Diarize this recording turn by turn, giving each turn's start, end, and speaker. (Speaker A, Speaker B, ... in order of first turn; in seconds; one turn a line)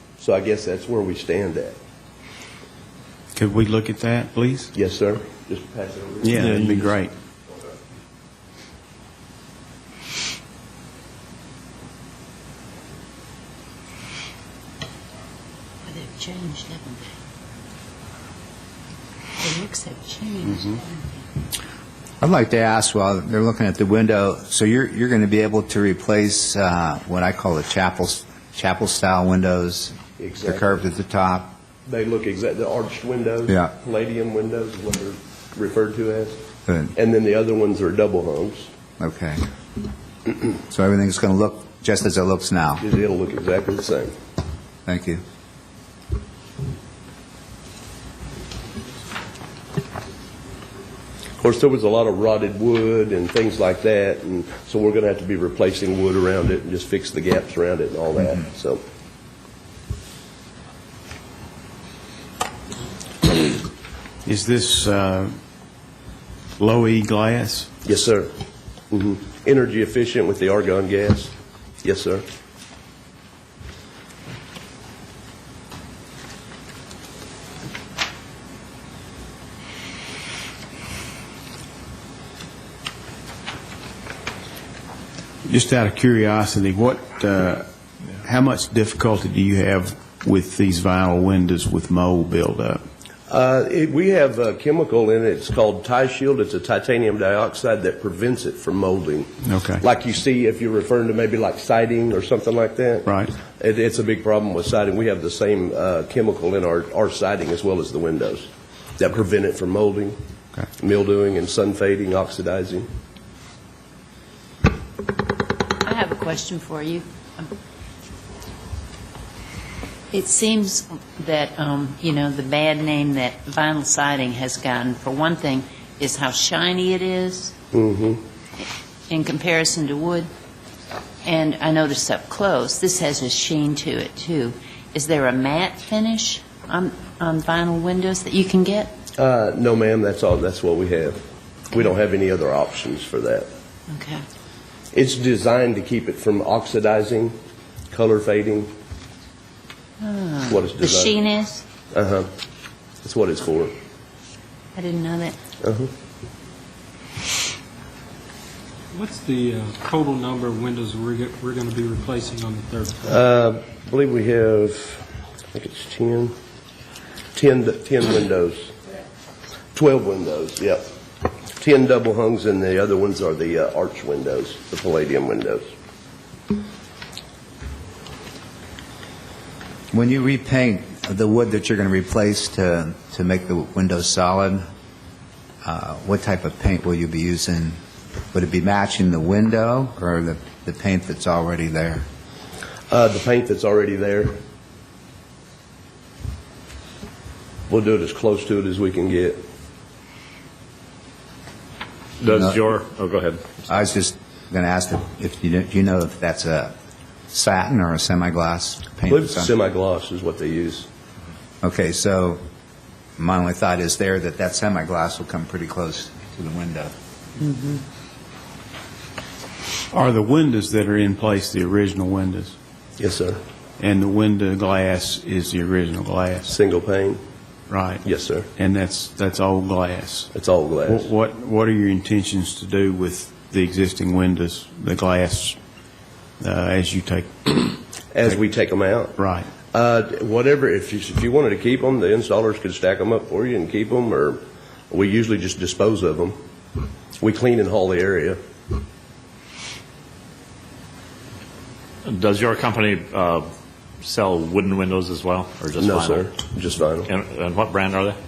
Speaker A: 0.2-1.8
Speaker B: 3.4-4.7
Speaker A: 4.7-7.0
Speaker B: 6.2-7.1
Speaker C: 15.9-17.1
Speaker C: 19.4-21.3
Speaker D: 22.2-31.5
Speaker A: 30.2-30.8
Speaker A: 31.9-36.4
Speaker D: 36.7-36.9
Speaker A: 36.9-38.7
Speaker D: 39.0-39.4
Speaker D: 40.7-42.8
Speaker A: 42.8-44.1
Speaker D: 44.9-45.2
Speaker A: 51.4-58.8
Speaker B: 64.2-65.3
Speaker B: 66.6-67.7
Speaker A: 67.8-68.3
Speaker A: 68.9-72.2
Speaker B: 85.4-87.7
Speaker B: 88.2-92.8
Speaker A: 93.3-110.2
Speaker B: 99.5-99.8
Speaker B: 103.1-103.3
Speaker A: 110.8-112.9
Speaker C: 115.8-117.5
Speaker C: 120.1-127.5
Speaker A: 127.7-128.2
Speaker C: 129.1-130.3
Speaker C: 131.2-138.9
Speaker A: 139.2-143.5
Speaker C: 143.9-144.2
Speaker A: 144.9-147.3
Speaker A: 147.9-148.7
Speaker C: 150.0-151.6
Speaker A: 150.5-151.1
Speaker A: 151.9-152.3
Speaker A: 153.0-153.7
Speaker C: 154.8-155.4
Speaker A: 155.6-155.9
Speaker E: 158.9-163.2
Speaker A: 163.1-166.3
Speaker A: 167.3-168.8
Speaker A: 169.7-170.9
Speaker A: 171.5-175.7
Speaker D: 179.9-184.6
Speaker D: 185.6-187.8
Speaker D: 188.3-192.1
Speaker A: 192.9-194.4
Speaker A: 197.7-199.4
Speaker F: 202.2-203.5
Speaker D: 202.3-202.7
Speaker D: 203.7-206.8
Speaker D: 207.3-209.5
Speaker A: 209.1-210.9
Speaker D: 211.6-212.4
Speaker D: 213.2-216.9
Speaker C: 217.4-217.8
Speaker B: 219.9-222.6
Speaker A: 223.0-223.4
Speaker B: 223.8-226.6
Speaker A: 226.5-227.2
Speaker B: 227.7-228.1
Speaker A: 228.0-228.5
Speaker B: 228.6-230.3
Speaker A: 230.3-231.1
Speaker B: 230.8-235.6
Speaker B: 236.4-238.4
Speaker A: 238.1-239.2
Speaker B: 239.2-239.5
Speaker A: 239.7-246.4
Speaker A: 247.2-248.4
Speaker F: 252.1-253.5
Speaker F: 254.0-256.2
Speaker A: 255.8-257.1
Speaker F: 257.1-258.2